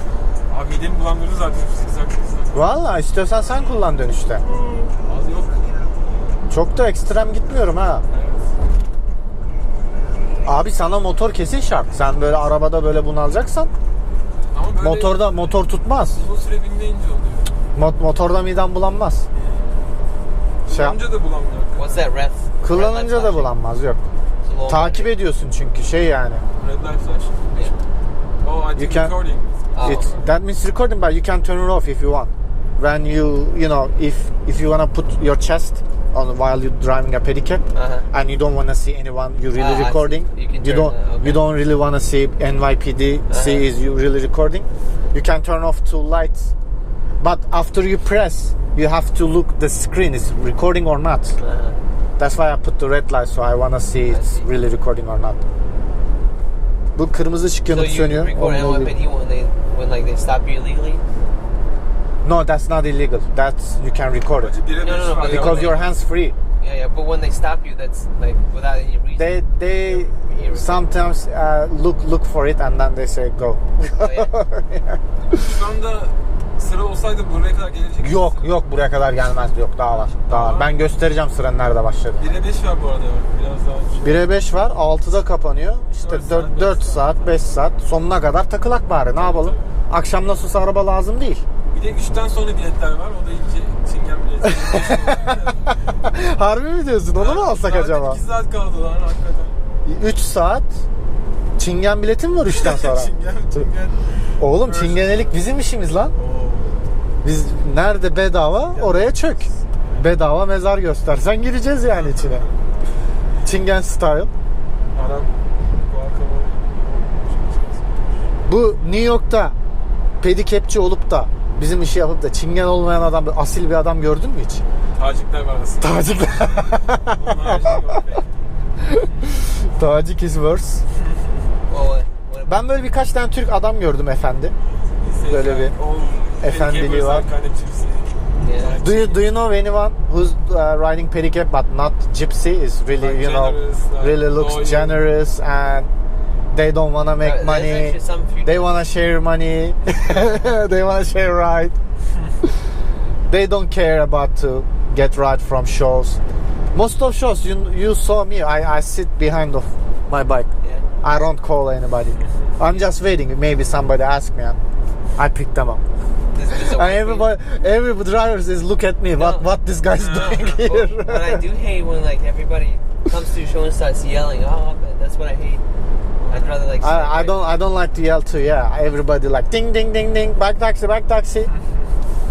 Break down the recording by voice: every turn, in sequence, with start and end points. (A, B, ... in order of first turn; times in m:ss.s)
0:00.5-0:03.8 A
0:02.5-0:04.4 B
0:05.0-0:05.7 A
0:06.5-0:08.0 B
0:08.1-0:08.5 A
0:10.4-0:13.7 B
0:14.5-0:15.3 A
0:14.8-0:16.2 B
0:16.1-0:17.5 A
0:17.7-0:19.2 B
0:19.3-0:19.8 A
0:20.6-0:22.0 A
0:20.7-0:21.0 B
0:21.7-0:23.5 C
0:22.6-0:24.0 B
0:24.4-0:25.1 C
0:24.7-0:26.4 B
0:26.6-0:27.8 A
0:28.4-0:30.2 A
0:28.8-0:29.1 B
0:29.7-0:30.1 C
0:29.8-0:46.5 B
0:37.7-0:38.1 C
0:39.5-0:41.4 C
0:43.3-0:43.7 C
0:47.2-0:51.3 B
0:51.4-0:51.8 C
0:52.2-0:55.4 B
0:54.1-0:54.5 C
0:56.9-0:58.9 B
0:57.6-1:01.0 C
1:02.2-1:04.5 B
1:04.4-1:05.9 A
1:04.8-1:05.9 C
1:05.2-1:06.4 B
1:06.6-1:10.9 C
1:09.2-1:15.4 B
1:13.8-1:14.3 C
1:15.3-1:18.6 A
1:18.0-1:22.4 B
1:19.8-1:20.8 A
1:22.2-1:24.3 A
1:24.0-1:31.4 B
1:25.9-1:27.6 A
1:29.1-1:29.8 A
1:31.7-1:35.8 A
1:34.5-1:35.3 B
1:36.0-1:38.2 B
1:37.1-1:39.6 A
1:39.8-1:40.7 B
1:41.6-1:43.1 B
1:42.5-1:45.5 A
1:44.4-1:46.1 B
1:46.1-1:46.8 A
1:47.2-1:52.4 B
1:48.7-1:50.1 A
1:51.9-1:52.5 A
1:53.4-1:54.3 B
1:54.9-1:58.3 A
1:58.5-1:59.5 B
2:00.2-2:04.6 B
2:04.9-2:09.4 A
2:05.8-2:07.7 B
2:08.8-2:10.8 B
2:11.7-2:12.6 C
2:12.5-2:14.5 B
2:15.0-2:19.3 A
2:15.3-2:15.7 B
2:16.4-2:17.2 B
2:18.4-2:18.8 C
2:18.8-2:25.9 B
2:23.0-2:25.1 A
2:26.5-2:31.8 B
2:27.2-2:28.8 C
2:33.3-2:36.2 B
2:36.7-2:40.5 B
2:40.6-2:40.9 C
2:41.0-2:44.6 B
2:42.2-2:42.5 A
2:45.2-2:45.8 B
2:46.3-2:47.3 C
2:46.5-2:51.4 B
2:49.1-2:55.6 C
2:49.9-2:50.7 A
2:56.2-2:56.5 A
2:56.3-2:57.6 C
2:56.8-3:01.5 B
3:01.5-3:01.8 A